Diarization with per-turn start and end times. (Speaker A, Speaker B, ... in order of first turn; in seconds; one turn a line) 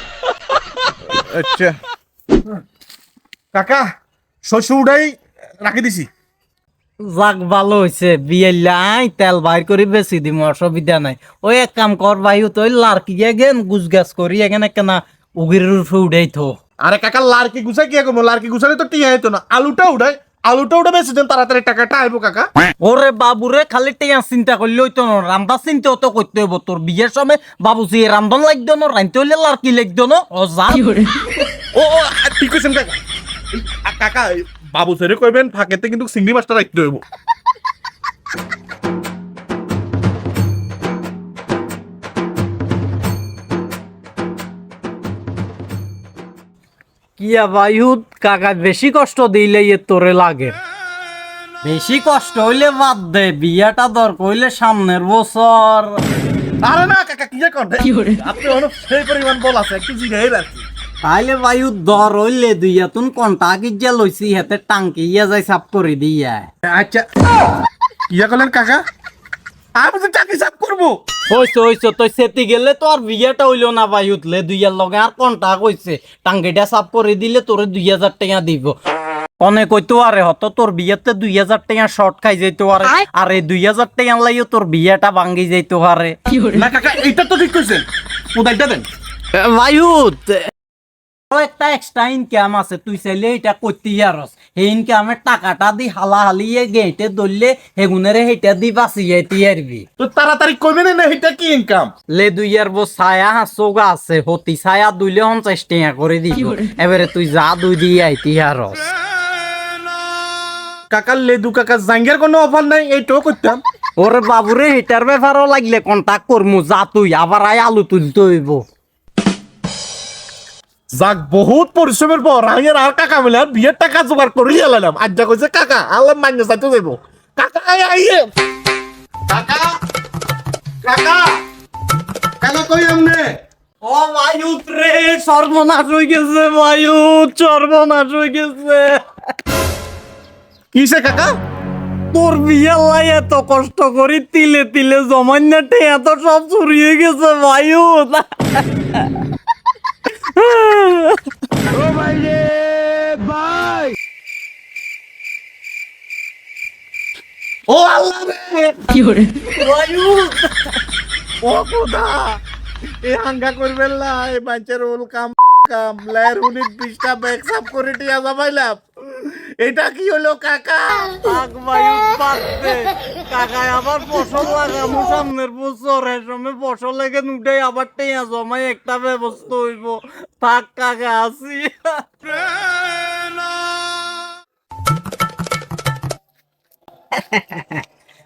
Speaker A: 1.1-1.8
Speaker A: 3.5-3.9
Speaker A: 4.5-6.1
Speaker B: 7.0-16.6
Speaker A: 16.8-22.5
Speaker B: 22.8-31.1
Speaker A: 31.7-33.0
Speaker A: 33.5-37.0
Speaker B: 47.2-50.6
Speaker B: 51.6-56.0
Speaker A: 56.6-60.6
Speaker B: 61.0-67.0
Speaker A: 68.1-68.8
Speaker A: 69.8-71.0
Speaker B: 71.3-78.8
Speaker B: 79.4-86.2
Speaker A: 86.5-88.9
Speaker B: 89.3-90.5
Speaker B: 91.3-99.9
Speaker A: 100.0-101.9
Speaker B: 102.1-108.8
Speaker A: 110.9-113.6
Speaker B: 114.0-118.6
Speaker A: 120.9-128.3
Speaker A: 129.3-129.8
Speaker A: 130.8-131.4
Speaker A: 132.4-133.3
Speaker B: 133.8-139.0
Speaker A: 140.7-141.3
Speaker B: 142.1-149.1
Speaker B: 150.2-151.2
Speaker A: 157.7-158.9
Speaker B: 159.5-160.5
Speaker B: 161.6-162.0
Speaker A: 163.1-166.6
Speaker B: 166.8-167.9
Speaker A: 168.2-168.8
Speaker A: 169.6-170.8
Speaker B: 171.0-182.0
Speaker B: 187.1-187.8